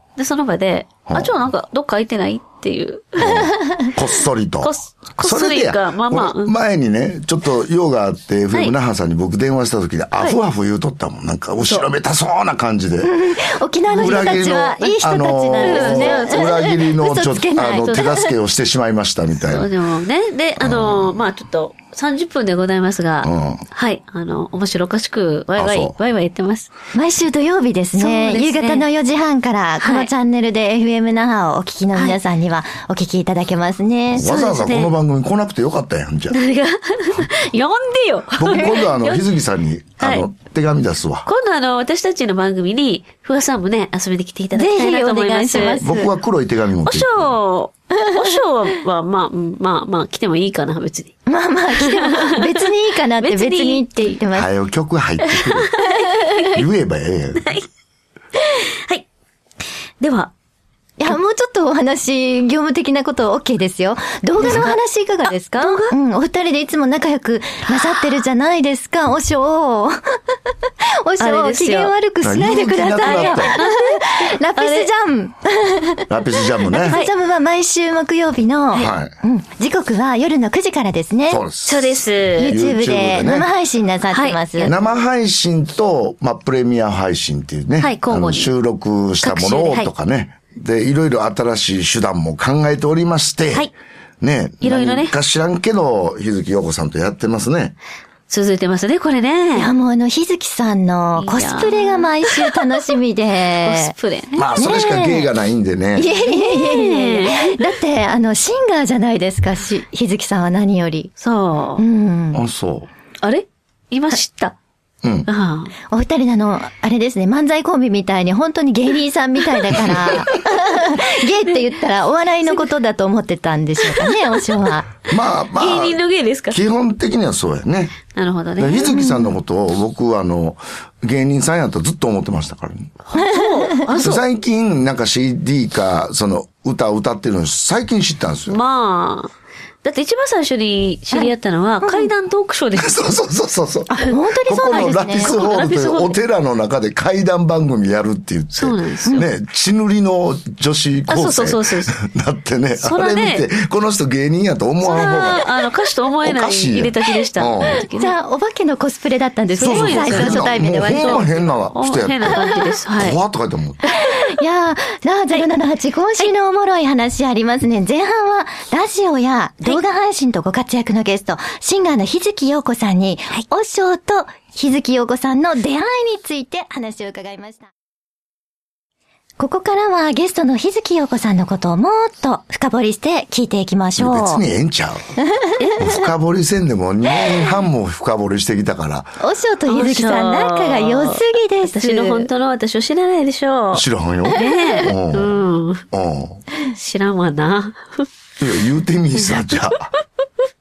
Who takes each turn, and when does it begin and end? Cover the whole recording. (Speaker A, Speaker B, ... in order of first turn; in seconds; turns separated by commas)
Speaker A: 0.2-4.0, Speaker B: 1.1-1.4, Speaker B: 3.2-13.1, Speaker A: 4.6-6.5, Speaker A: 11.6-11.9, Speaker C: 13.0-18.4, Speaker A: 13.9-14.5, Speaker B: 14.0-19.7, Speaker A: 15.6-16.6, Speaker A: 19.4-26.7, Speaker B: 20.6-21.1, Speaker B: 23.2-23.6, Speaker B: 25.6-25.9, Speaker C: 26.9-34.3, Speaker A: 28.0-28.9, Speaker A: 29.8-30.1, Speaker B: 34.1-36.4, Speaker A: 34.2-34.9, Speaker A: 36.3-39.3, Speaker B: 38.4-41.2, Speaker A: 40.0-40.2, Speaker A: 41.2-45.8, Speaker C: 44.5-46.1, Speaker B: 45.8-47.3, Speaker A: 46.9-51.1, Speaker C: 51.2-54.5, Speaker A: 51.8-52.5, Speaker A: 53.2-54.1, Speaker B: 54.3-55.7, Speaker A: 55.2-56.6, Speaker C: 55.8-56.3, Speaker B: 56.4-57.5, Speaker A: 57.4-57.6, Speaker A: 58.4-59.1, Speaker A: 60.0-60.3, Speaker C: 61.0-70.4, Speaker A: 64.4-64.8, Speaker A: 65.6-66.0, Speaker A: 67.7-68.1, Speaker C: 71.0-76.0, Speaker A: 71.2-71.9, Speaker B: 72.2-73.5, Speaker A: 73.0-74.9, Speaker B: 76.1-77.0, Speaker C: 76.7-81.4, Speaker A: 76.8-77.1, Speaker B: 78.7-79.1, Speaker B: 81.3-83.5, Speaker A: 81.6-82.5, Speaker C: 82.4-84.7, Speaker A: 84.1-84.8, Speaker B: 84.6-93.7, Speaker A: 87.8-88.5, Speaker A: 89.2-89.9, Speaker B: 94.2-97.8, Speaker A: 94.6-95.2, Speaker A: 98.3-99.7, Speaker C: 99.5-103.9, Speaker A: 101.2-102.5, Speaker A: 103.6-104.8, Speaker B: 104.3-106.1, Speaker C: 104.6-105.3, Speaker C: 106.0-111.1, Speaker A: 106.2-107.6, Speaker A: 111.2-111.8, Speaker C: 111.8-112.4, Speaker B: 112.3-112.9, Speaker A: 113.2-114.5, Speaker A: 115.3-115.7, Speaker C: 115.9-124.9, Speaker A: 123.9-124.3, Speaker B: 125.1-128.0, Speaker A: 125.6-126.6, Speaker A: 128.1-129.0, Speaker B: 128.6-132.9, Speaker C: 128.8-129.4, Speaker A: 133.0-134.2, Speaker C: 133.1-133.9, Speaker B: 134.0-138.6, Speaker A: 138.5-139.3, Speaker A: 139.8-143.2, Speaker C: 141.1-142.1, Speaker B: 142.7-155.4, Speaker C: 144.0-145.5, Speaker A: 144.7-146.2, Speaker A: 148.5-149.2, Speaker A: 151.1-152.0, Speaker A: 152.8-153.5, Speaker A: 154.8-158.1, Speaker B: 156.2-157.8, Speaker C: 157.6-161.6, Speaker A: 159.5-163.2, Speaker B: 159.6-163.8, Speaker C: 162.3-162.6, Speaker A: 163.8-164.4, Speaker C: 163.9-177.7, Speaker C: 179.4-184.4, Speaker B: 184.0-185.1, Speaker A: 185.6-186.0, Speaker B: 185.8-189.2, Speaker C: 189.2-192.3, Speaker A: 189.7-195.8, Speaker B: 193.7-195.4, Speaker B: 195.9-196.4, Speaker A: 196.7-198.1, Speaker B: 198.4-199.9, Speaker A: 199.3-199.6